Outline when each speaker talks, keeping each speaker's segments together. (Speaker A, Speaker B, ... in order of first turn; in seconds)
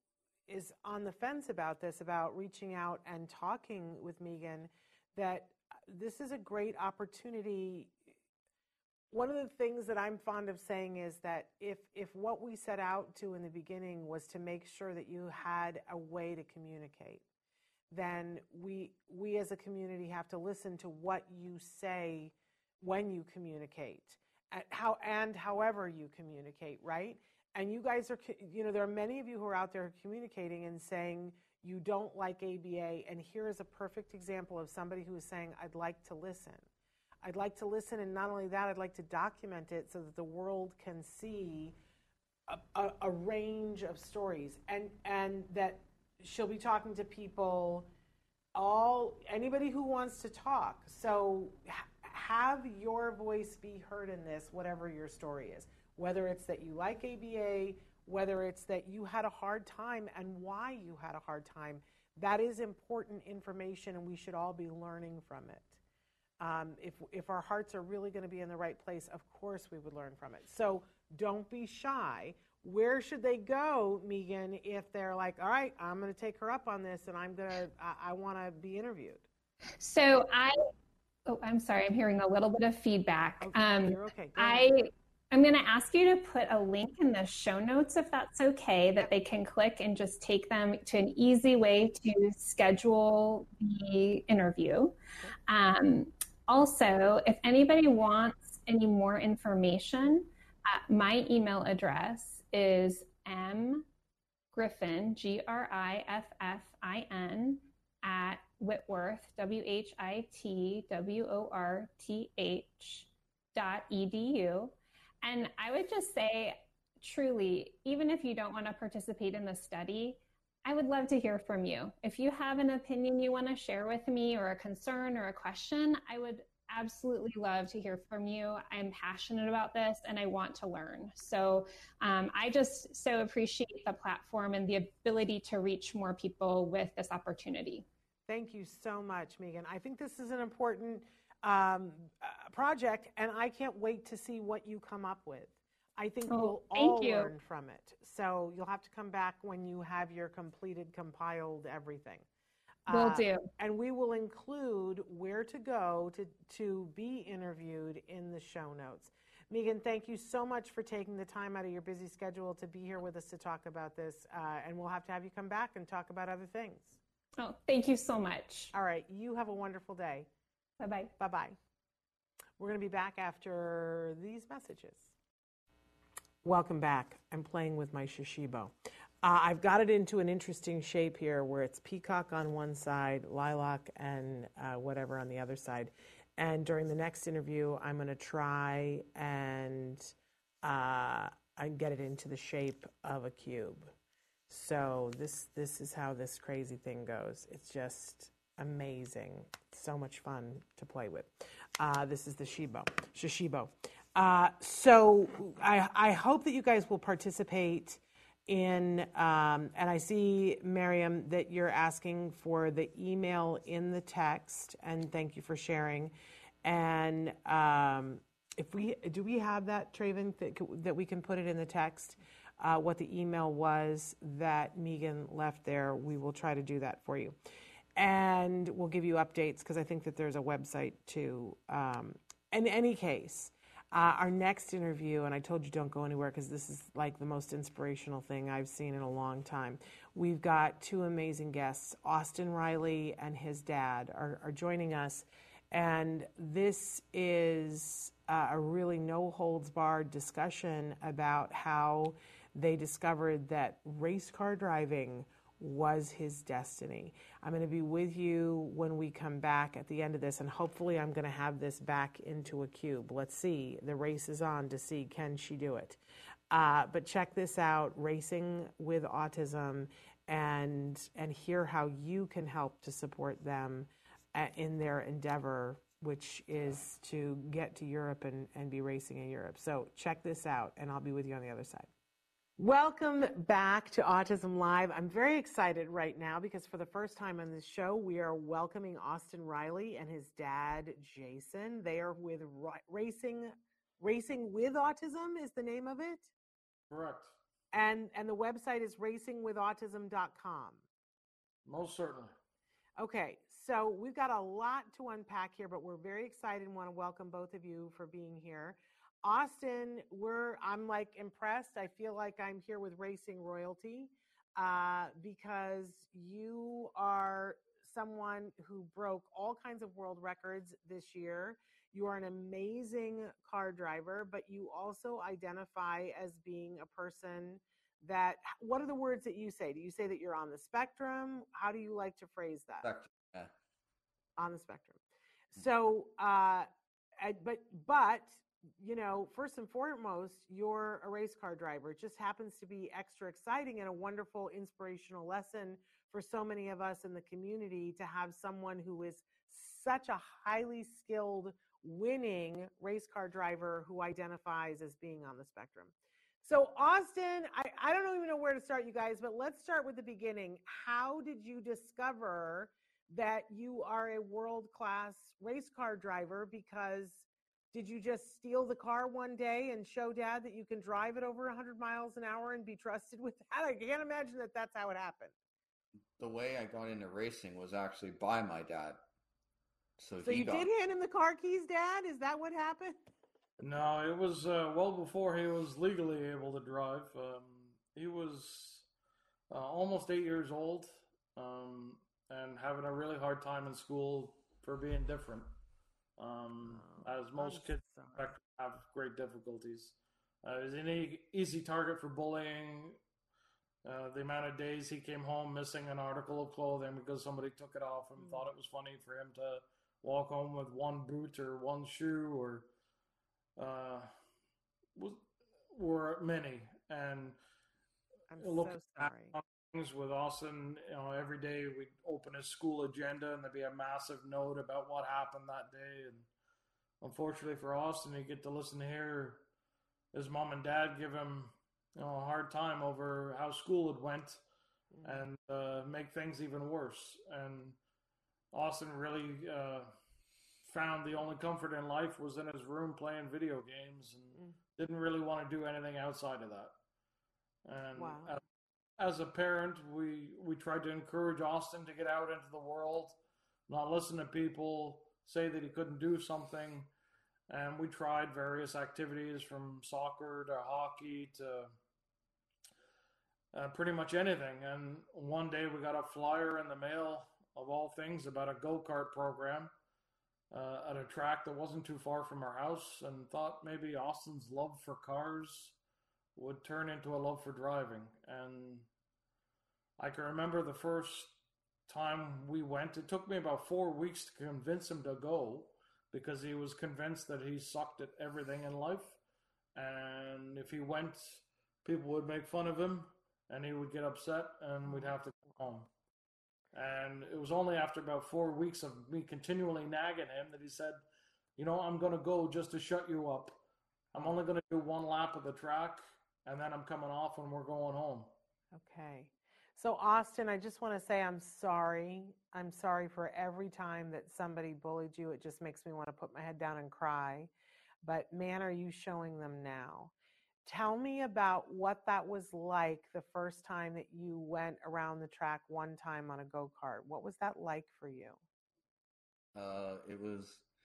Speaker A: 0.5-8.1, 9.1-17.2, 17.9-36.7, 37.2-41.8, 42.5-47.9, 48.5-65.8, 66.4-79.2, 83.4-84.7, 138.3-152.2, 152.9-167.0, 168.7-170.3, 171.2-171.6, 172.6-175.1, 176.4-193.9, 194.5-216.1, 216.6-227.3, 227.9-281.9, 282.6-296.3, 297.7-300.8, 303.0-332.9, 334.4-335.0, 335.5-336.7, 337.2-355.9, 356.4-375.3, 380.2-383.0, 396.7-398.3, 408.2-408.5, 418.3-419.3, 434.9-435.2, 448.0-448.4, 494.9-495.6, 508.7-517.5, 518.0-520.1, 520.6-528.4
Speaker B: 79.8-80.5, 81.3-95.0, 95.5-103.8, 104.5-137.8, 146.3-147.3, 152.9-153.5, 167.4-168.7, 170.8-171.1
Speaker C: 296.9-297.3, 301.6-302.3, 383.6-388.9, 389.5-395.5, 396.2-403.0, 403.8-412.7, 413.6-414.1, 414.9-417.4, 418.4-426.3, 427.0-429.4, 430.1-434.4, 435.0-437.8, 438.5-439.9, 440.6-446.7, 447.6-448.4, 449.0-453.2, 453.7-456.9, 457.5-461.7, 463.5-469.7, 470.5-475.8, 476.4-478.9, 480.0-481.3, 481.9-489.2, 489.8-495.9, 496.7-501.0, 501.6-503.5, 504.1-508.3
Speaker D: 332.8-333.5, 376.2-379.0, 380.0-380.7, 529.5-530.6